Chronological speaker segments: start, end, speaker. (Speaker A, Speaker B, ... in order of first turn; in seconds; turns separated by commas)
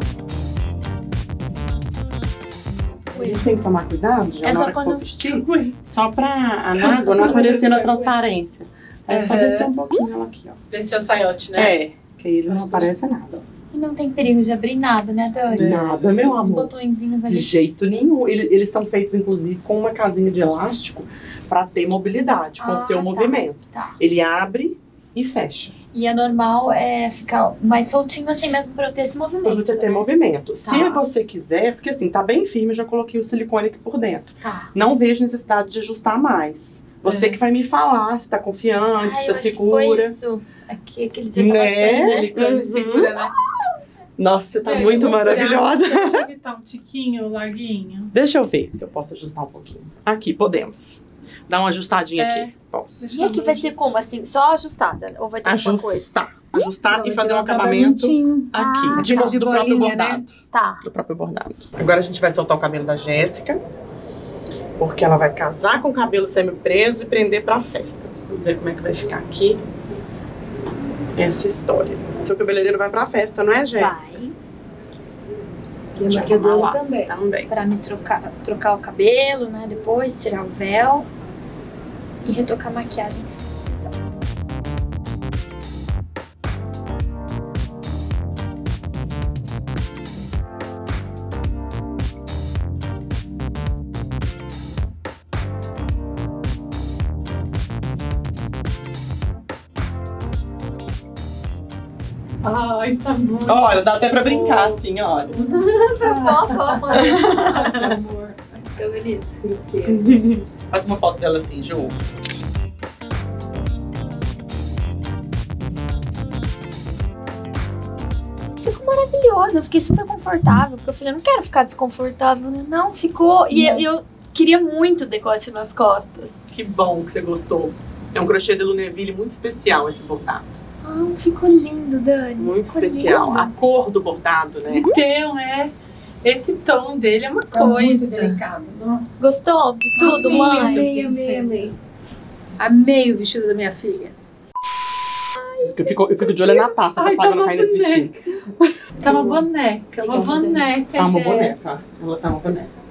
Speaker A: 3.1-10.6, Speaker B: 3.1-3.5, Speaker B: 4.4-5.0, Speaker C: 5.4-5.7, Speaker C: 6.8-8.1, Speaker C: 9.1-9.7, Speaker C: 10.7-11.7, Speaker A: 11.5-13.4, Speaker C: 12.5-12.9, Speaker B: 13.7-17.8, Speaker C: 15.5-16.1, Speaker A: 15.5-16.7, Speaker A: 17.2-25.7, Speaker B: 22.6-24.0, Speaker B: 25.9-30.1, Speaker A: 29.4-40.1, Speaker B: 30.6-31.0, Speaker B: 34.4-34.7, Speaker C: 37.0-37.4, Speaker B: 39.0-43.3, Speaker A: 41.4-43.1, Speaker A: 44.2-46.2, Speaker C: 44.6-48.1, Speaker A: 48.1-53.0, Speaker C: 52.2-54.0, Speaker B: 53.1-56.2, Speaker A: 55.4-63.6, Speaker D: 56.9-60.2, Speaker B: 58.9-59.3, Speaker B: 60.5-60.8, Speaker A: 64.8-69.6, Speaker A: 71.2-74.1, Speaker B: 73.7-74.3, Speaker D: 76.0-77.1, Speaker A: 76.0-77.5, Speaker B: 77.5-81.1, Speaker B: 82.2-83.9, Speaker C: 102.4-107.7, Speaker A: 103.5-105.3, Speaker B: 105.7-109.3, Speaker A: 106.9-108.0, Speaker C: 109.4-110.2, Speaker A: 109.8-112.0, Speaker B: 118.6-126.3, Speaker A: 126.5-130.6, Speaker B: 130.8-133.5, Speaker A: 132.4-134.9, Speaker C: 134.7-138.4, Speaker D: 137.5-139.2, Speaker B: 139.2-140.9, Speaker D: 140.0-141.7, Speaker C: 140.0-141.7, Speaker D: 142.6-144.1, Speaker B: 145.4-146.8, Speaker A: 145.6-148.2, Speaker C: 146.9-148.2, Speaker C: 148.9-151.6, Speaker B: 150.0-150.6, Speaker A: 150.9-152.7